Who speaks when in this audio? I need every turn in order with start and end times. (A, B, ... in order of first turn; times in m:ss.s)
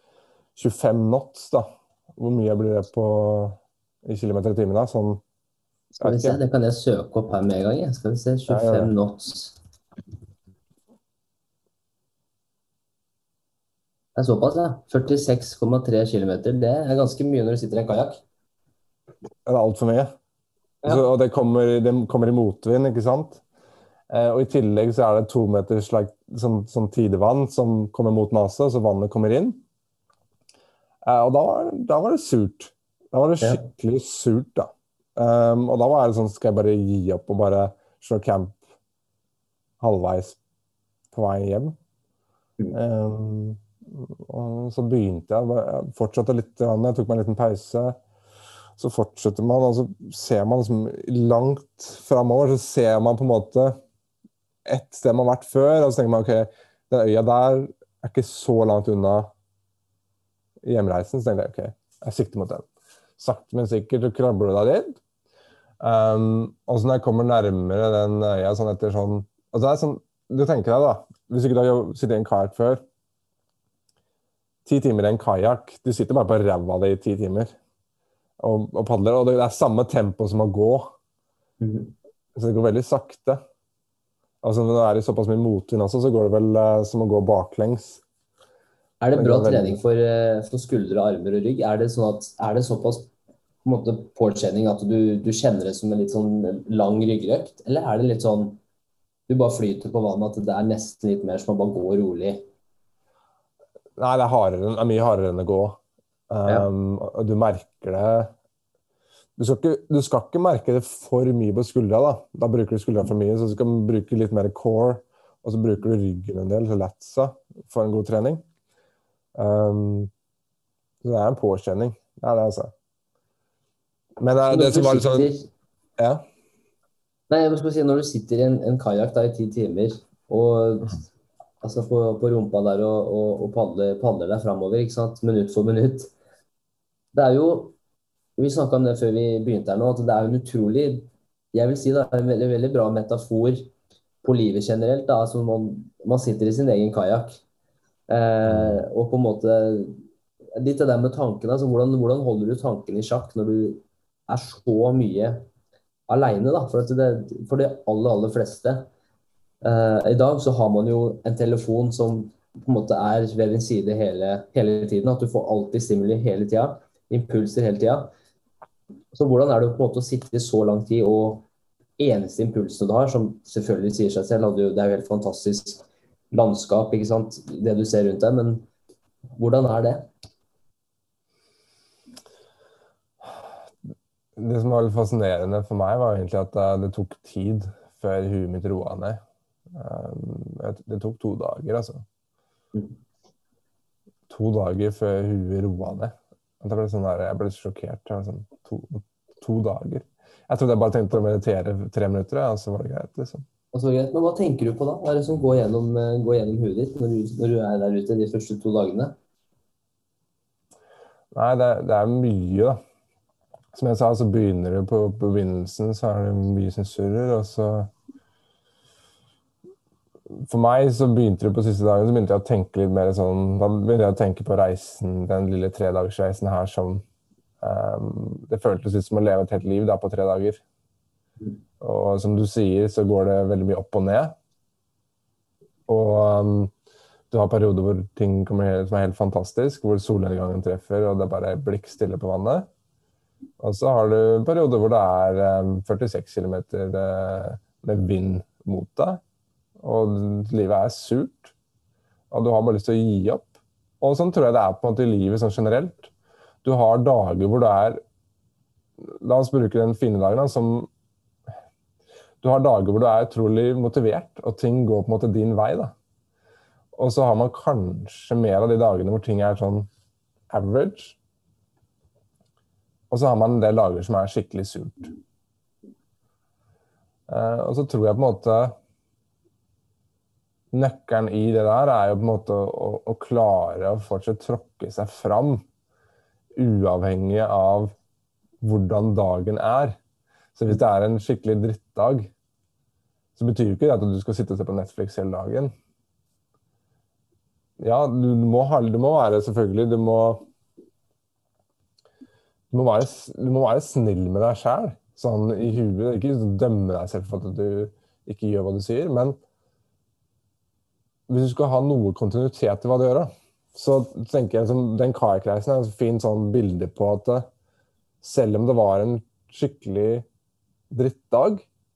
0:00.6-0:05.2 A
0:05.9-0:09.6 B
0:06.0-0:06.4 A
0:08.5-0:08.9 A
0:14.2-0:18.2 B
0:19.4-0:20.1 A
0:20.8-0:23.4 A
0:24.1-0:29.6 A
0:31.0-0:38.6 A
0:33.4-0:33.6 B
0:39.8-0:40.4 A
0:41.1-0:41.8 A
0:42.7-0:48.0 A
0:48.8-0:53.8 A
0:54.6-0:59.3 A
1:00.6-1:05.0 A
1:05.8-1:12.8 A
1:14.6-1:17.5 A
1:18.4-1:20.9 A
1:21.6-1:21.9 B
1:22.3-1:23.4 A
1:24.4-1:28.0 A
1:29.0-1:33.1 B
1:29.1-1:29.8 A
1:33.6-1:38.6 B
1:39.3-1:42.4 B
1:44.0-1:45.8 A
1:46.3-1:48.3 A
1:49.4-1:58.4 A
1:59.4-2:00.1 A
2:01.0-2:02.7 A
2:04.2-2:05.3 A
2:04.4-2:05.5 B
2:06.0-2:06.2 A
2:07.3-2:11.0 B
2:11.6-2:16.1 B
2:17.1-2:17.7 B
2:18.4-2:23.7 B
2:24.2-2:27.4 B
2:28.1-2:30.0 B
2:28.4-2:28.8 A
2:30.6-2:35.5 B
2:36.1-2:38.9 B
2:39.6-2:48.1 B
2:49.1-2:51.4 B
2:52.0-2:58.7 B
2:59.4-3:00.1 B
3:03.2-3:03.5 A
3:04.4-3:09.2 A
3:09.7-3:12.0 A
3:14.3-3:23.4 A
3:23.7-3:29.1 B
3:31.3-3:32.8 A
3:33.7-3:37.9 A
3:40.3-3:47.0 A
3:47.6-3:50.6 A
3:51.8-3:54.3 A
3:55.9-3:56.7 A
3:57.3-4:02.7 A
4:03.6-4:09.2 A
4:09.8-4:11.5 A
4:12.3-4:16.1 A
4:16.6-4:18.0 A
4:19.0-4:20.9 A
4:22.4-4:25.9 A
4:26.9-4:29.9 A
4:30.5-4:31.2 A
4:33.1-4:35.1 A
4:37.3-4:38.7 A
4:40.7-4:45.6 A
4:46.5-4:47.9 A
4:48.6-4:50.0 A
4:50.6-4:52.3 A
4:53.4-4:55.7 A
4:57.8-5:00.4 A
5:02.7-5:09.4 A
5:11.3-5:17.5 A
5:18.2-5:20.2 A
5:20.9-5:21.6 A